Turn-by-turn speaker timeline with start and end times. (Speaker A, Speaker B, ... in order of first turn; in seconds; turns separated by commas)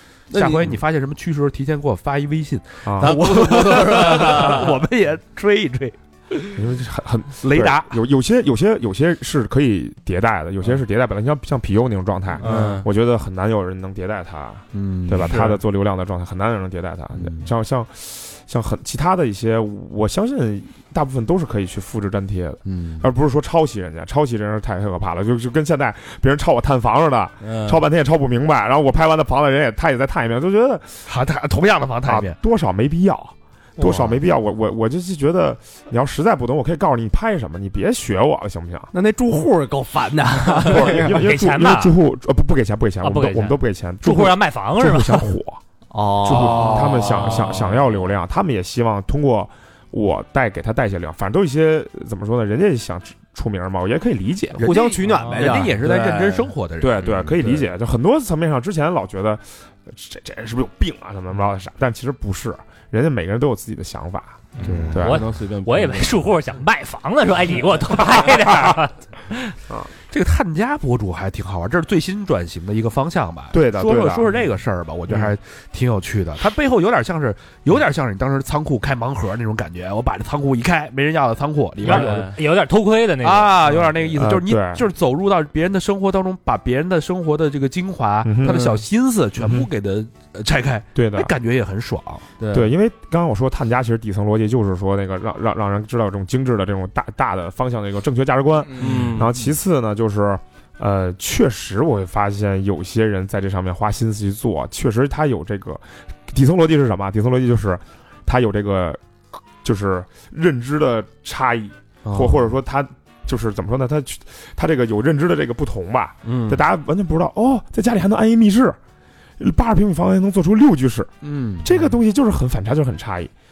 Speaker A: 0.3-0.8, Speaker B: 0.3-6.6, Speaker C: 2.8-3.1, Speaker A: 3.0-4.7, Speaker C: 6.5-31.0, Speaker B: 7.4-8.0, Speaker B: 12.4-12.8, Speaker A: 12.4-12.9, Speaker B: 14.7-15.4, Speaker B: 17.1-17.5, Speaker B: 22.6-23.1, Speaker A: 27.4-27.8, Speaker B: 31.1-32.4, Speaker C: 32.0-38.9, Speaker D: 33.8-34.1, Speaker E: 38.9-41.3, Speaker C: 40.6-45.6, Speaker D: 40.7-42.0, Speaker D: 43.0-45.3, Speaker E: 45.9-47.4, Speaker C: 46.2-54.6, Speaker B: 46.4-47.0, Speaker B: 54.5-57.5, Speaker E: 54.6-55.9, Speaker D: 55.1-55.6, Speaker A: 55.6-56.5, Speaker C: 56.8-64.4, Speaker B: 64.6-65.0, Speaker D: 64.6-68.9, Speaker A: 64.7-66.2, Speaker C: 64.9-65.2, Speaker B: 70.1-82.3, Speaker C: 73.5-74.3, Speaker A: 81.8-82.4, Speaker D: 81.8-83.8, Speaker B: 83.2-92.3, Speaker C: 84.1-84.8, Speaker C: 88.2-88.8, Speaker A: 88.5-88.8, Speaker C: 89.4-89.7, Speaker C: 90.9-91.3, Speaker A: 92.4-92.7, Speaker C: 92.5-109.0, Speaker A: 98.7-99.3, Speaker C: 109.6-118.8, Speaker B: 112.0-112.5, Speaker B: 116.3-116.5, Speaker A: 116.3-116.5, Speaker C: 119.4-121.1, Speaker B: 121.2-121.9, Speaker C: 121.6-123.3